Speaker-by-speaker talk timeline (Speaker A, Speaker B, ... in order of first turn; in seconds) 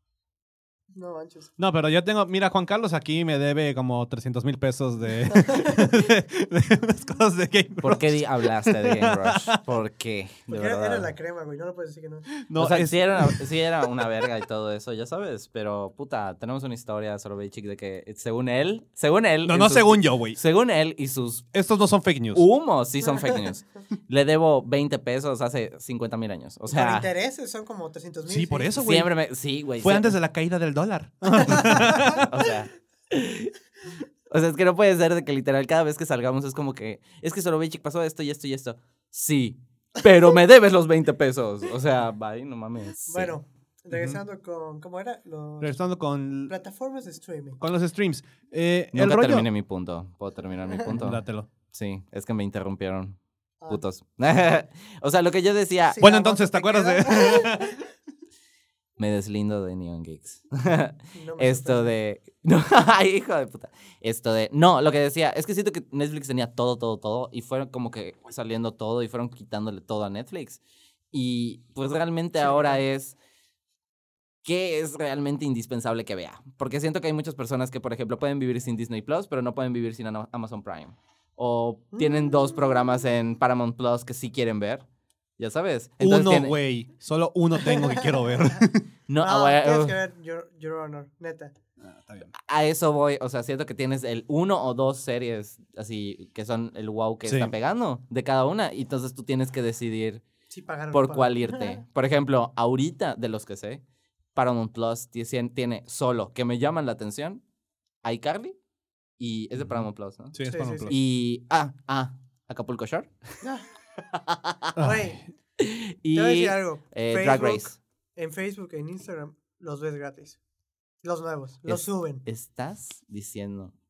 Speaker A: 0.9-1.5, 5.3-6.0, 10.5-12.3, 23.0-23.4, 26.7-28.8, 31.4-32.2, 43.1-45.8, 46.5-47.6, 55.9-57.8, 61.1-61.9, 72.4-72.8, 82.0-82.5, 87.6-91.5, 100.5-101.8, 110.4-110.9, 114.8-115.2, 116.1-120.4, 121.0-122.2
Speaker B: 1.6-9.6, 12.4-14.1, 19.4-20.4, 21.5-22.4, 28.3-29.1, 29.8-32.4, 43.9-44.2, 45.6-46.5, 47.6-49.5, 50.9-51.5, 56.0-57.8, 86.0-88.9, 91.8-92.3, 97.2-97.5, 109.6-111.0, 114.8-115.1
Speaker C: 7.8-11.1, 12.6-21.5, 22.3-27.1, 28.8-30.2, 32.1-33.5, 34.3-43.3, 49.0-53.2, 53.7-56.0, 59.0-70.6, 71.1-73.2, 74.5-84.8, 85.4-86.6, 89.1-90.0, 92.4-100.2, 100.9-103.8, 104.3-107.4, 108.0-108.6, 109.2-113.1, 114.1-114.8, 115.6-117.8, 121.7-123.7